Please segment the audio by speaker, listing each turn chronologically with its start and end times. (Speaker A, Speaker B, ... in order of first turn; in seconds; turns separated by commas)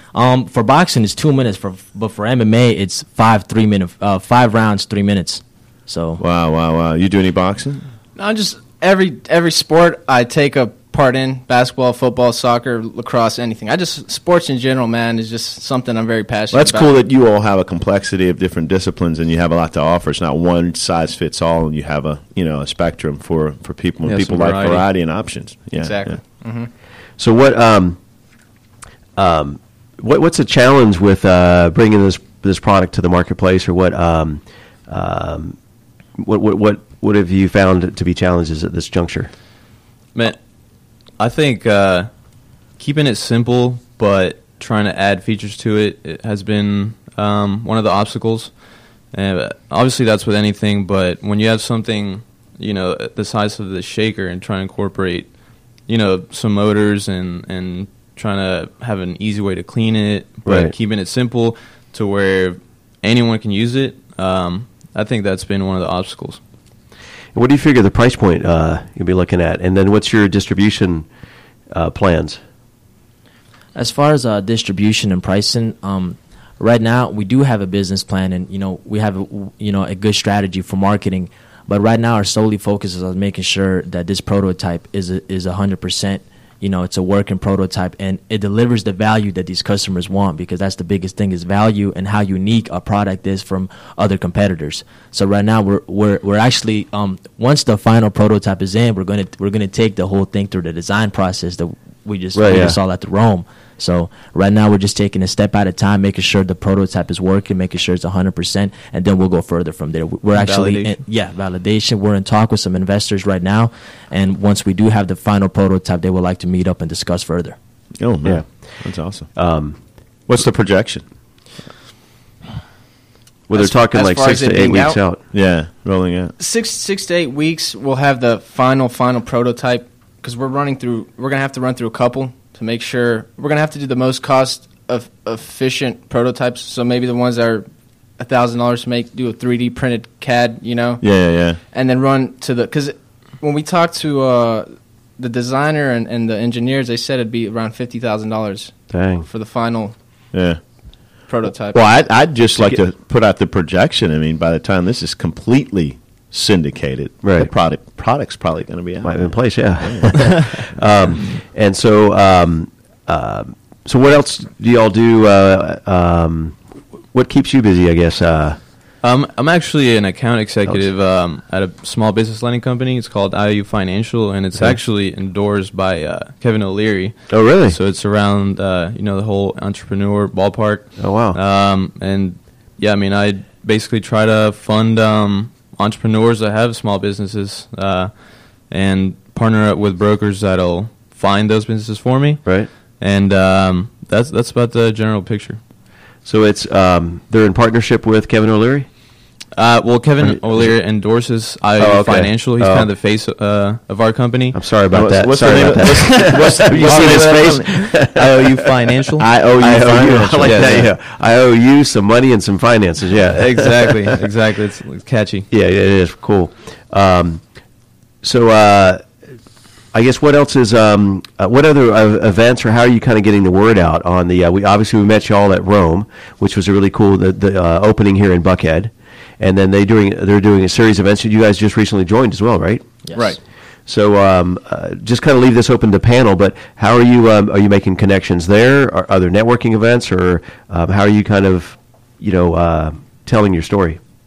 Speaker A: 0.1-6.2, Speaker B: 6.2-7.8, Speaker C: 8.2-16.9, Speaker B: 16.5-26.2, Speaker D: 24.1-24.8, Speaker C: 25.8-26.7, Speaker E: 27.2-28.0, Speaker E: 29.2-35.6, Speaker E: 36.2-39.3, Speaker D: 41.2-42.1, Speaker D: 42.8-48.5, Speaker D: 49.1-55.3, Speaker D: 55.9-66.4, Speaker E: 60.5-60.7, Speaker E: 67.3-71.1, Speaker E: 71.7-72.4, Speaker A: 73.8-117.6, Speaker E: 102.3-102.8, Speaker D: 110.3-111.0, Speaker B: 118.0-119.3, Speaker E: 119.4-119.8, Speaker B: 120.3-121.0, Speaker E: 123.5-125.2, Speaker C: 123.5-125.0, Speaker B: 125.3-126.3, Speaker C: 126.4-137.7, Speaker C: 138.2-141.0, Speaker B: 141.0-141.6, Speaker C: 141.7-149.9, Speaker E: 148.9-149.3, Speaker B: 150.3-150.6, Speaker C: 151.3-151.8, Speaker B: 151.7-160.4, Speaker E: 157.2-157.5, Speaker E: 159.0-166.6, Speaker E: 167.1-168.6, Speaker D: 169.0-188.1, Speaker E: 177.3-177.8, Speaker E: 181.0-181.4, Speaker D: 188.7-192.5, Speaker D: 193.0-195.6, Speaker E: 196.2-198.9, Speaker D: 199.6-204.6, Speaker E: 201.8-202.9, Speaker E: 204.5-208.4, Speaker B: 204.9-207.7, Speaker D: 205.8-209.3, Speaker B: 209.2-210.9, Speaker E: 209.6-214.1, Speaker D: 210.4-210.9, Speaker D: 213.3-215.5, Speaker E: 215.5-217.4, Speaker E: 218.2-219.1, Speaker E: 219.9-233.0, Speaker E: 233.9-244.0